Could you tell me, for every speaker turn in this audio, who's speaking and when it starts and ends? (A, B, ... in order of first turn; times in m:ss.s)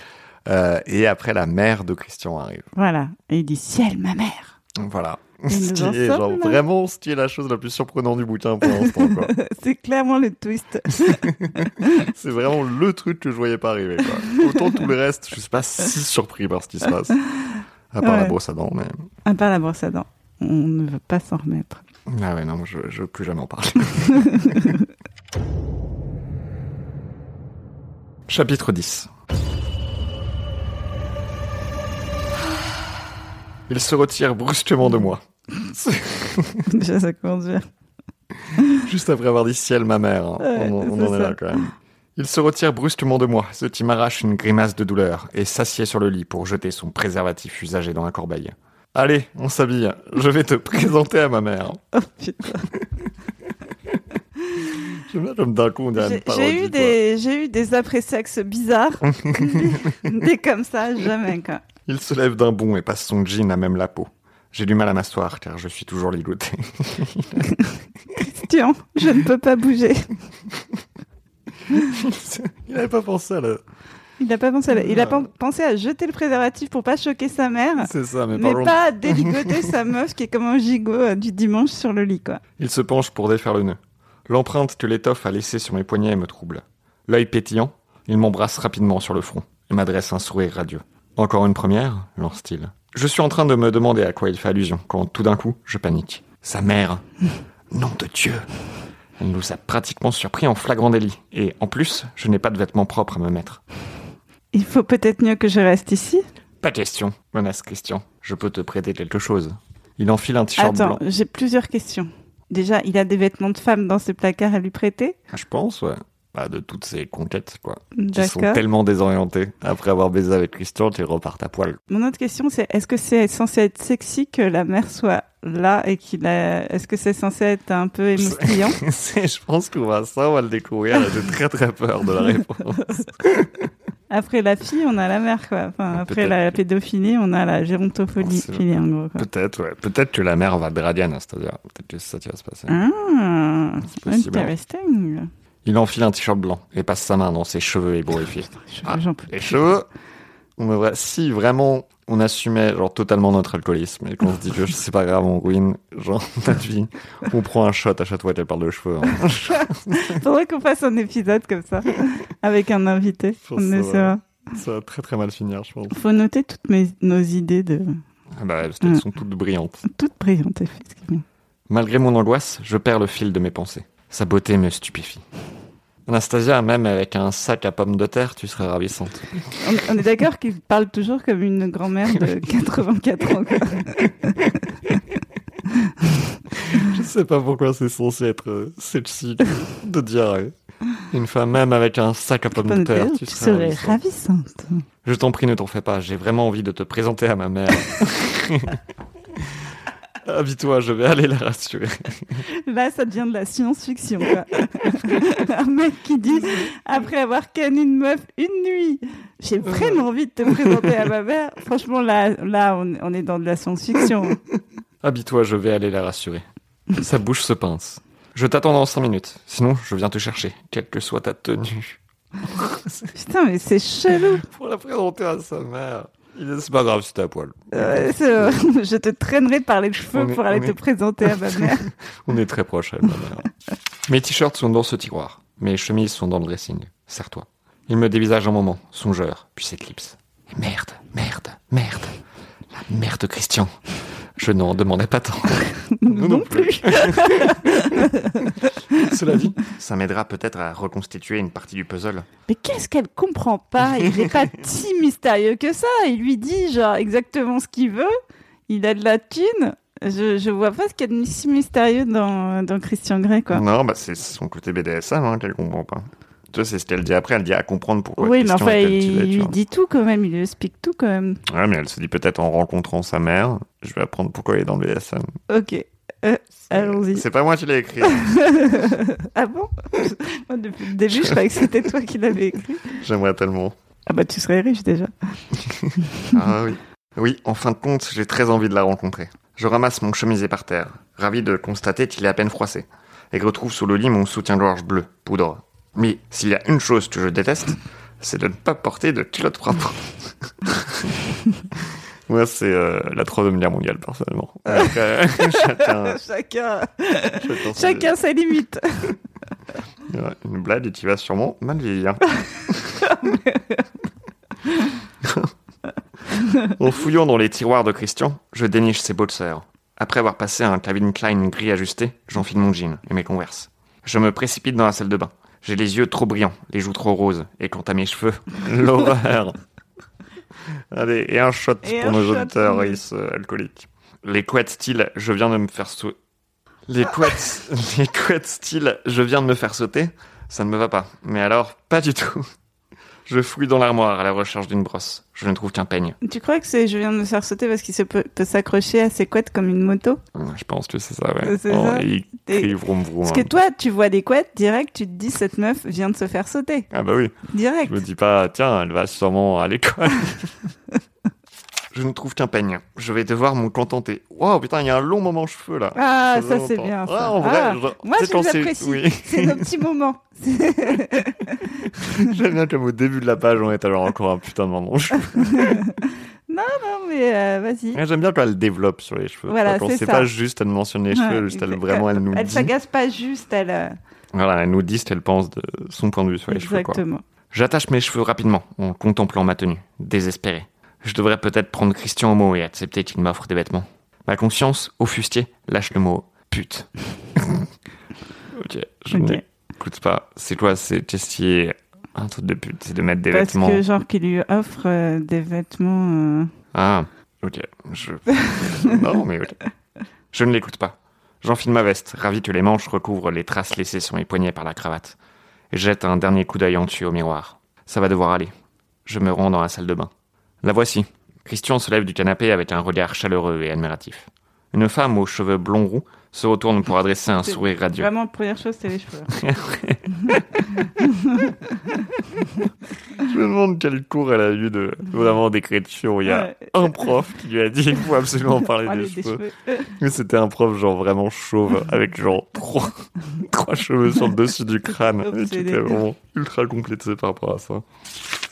0:00.4-0:02.7 A
0:02.7-0:04.5 B
0:04.8-0:09.3 A
0:05.5-0:06.6 B
0:08.6-0:11.9 B
0:10.9-0:17.2 A
0:14.3-0:14.8 B
0:17.9-0:19.1 A
0:18.0-0:18.4 B
0:19.2-0:21.8 B
0:22.1-0:24.8 A
0:24.1-0:24.8 B
0:28.3-0:29.1 A
0:33.7-0:36.7 A
0:36.7-0:37.6 B
0:38.5-0:51.8 A
0:40.4-0:41.6 B
0:51.9-0:52.7 B
0:54.7-0:57.0 A
0:56.0-1:01.6 B
0:59.1-1:00.1 A
1:01.9-1:07.5 A
1:08.2-1:10.1 B
1:11.7-1:13.6 A
1:14.2-1:22.4 B
1:14.7-1:15.3 A
1:17.8-1:19.7 A
1:22.6-1:37.0 A
1:37.7-1:38.5 A
1:39.2-1:43.6 A
1:44.5-1:46.2 B
1:46.6-1:51.0 A
1:50.6-1:55.2 B
1:55.3-2:01.8 A
1:57.9-1:58.6 B
2:01.9-2:08.8 B
2:08.2-2:13.5 A
2:14.1-2:19.2 B
2:15.9-2:16.4 A
2:18.2-2:18.6 A
2:19.2-2:22.8 A
2:22.7-2:25.3 B
2:23.8-2:24.5 A
2:25.6-2:29.9 A
2:28.6-2:29.6 B
2:30.6-2:40.2 A
2:39.9-2:44.2 B
2:43.4-2:46.0 A
2:45.9-2:48.0 B
2:48.4-2:49.8 A
2:49.8-2:51.2 B
2:51.7-2:55.2 A
2:56.0-2:59.6 A
2:59.6-3:04.4 B
3:06.5-3:10.5 A
3:11.1-3:14.0 A
3:12.5-3:14.8 B
3:15.0-3:18.8 A
3:20.2-3:22.4 A
3:22.5-3:34.4 B
3:29.6-3:30.0 A
3:30.6-3:30.8 A
3:35.0-3:36.4 A
3:37.0-3:43.1 A
3:43.1-3:44.4 B
3:44.4-3:48.6 A
3:47.7-3:51.9 B
3:50.1-3:51.7 A
3:52.2-3:53.5 A
3:54.0-4:02.1 A
4:02.7-4:03.8 A
4:04.4-4:12.3 A
4:06.0-4:09.1 B
4:12.5-4:18.1 B
4:18.7-4:23.6 B
4:23.5-4:29.5 A
4:28.2-4:31.4 B
4:31.4-4:35.3 A
4:35.5-4:37.2 B
4:36.7-4:38.4 A
4:38.1-4:43.0 B
4:41.1-4:41.4 A
4:42.9-4:43.7 A
4:44.1-4:45.4 B
4:45.6-5:01.1 A
4:46.0-4:46.4 B
5:02.3-5:06.2 A
5:04.7-5:09.2 B
5:07.4-5:08.1 A
5:10.1-5:13.4 A
5:15.2-5:15.5 A
5:16.5-5:29.6 A
5:30.9-5:36.1 A
5:31.8-5:33.0 B
5:36.9-5:42.5 A
5:43.2-5:46.2 A
5:46.2-5:50.2 B
5:50.3-5:53.5 A
5:51.4-5:56.9 B
5:56.9-6:00.6 A
5:57.5-5:58.0 B
6:01.9-6:09.7 A
6:06.0-6:11.7 B
6:11.8-6:15.8 A
6:15.6-6:18.0 B
6:17.9-6:22.7 A
6:19.5-6:20.3 B
6:21.1-6:24.0 B
6:24.3-6:37.7 A
6:26.5-6:27.2 B
6:38.5-6:43.8 A
6:39.1-6:39.4 B
6:43.3-6:46.5 B
6:46.7-6:49.6 A
6:50.3-6:55.2 A
6:55.7-6:58.5 A
6:59.0-7:00.1 A
7:00.6-7:08.1 A
7:07.4-7:09.4 B
7:09.3-7:11.0 A
7:11.0-7:11.5 B
7:13.2-7:19.4 A
7:16.2-7:17.2 B
7:18.8-7:20.0 B
7:20.0-7:27.8 A
7:25.2-7:26.0 B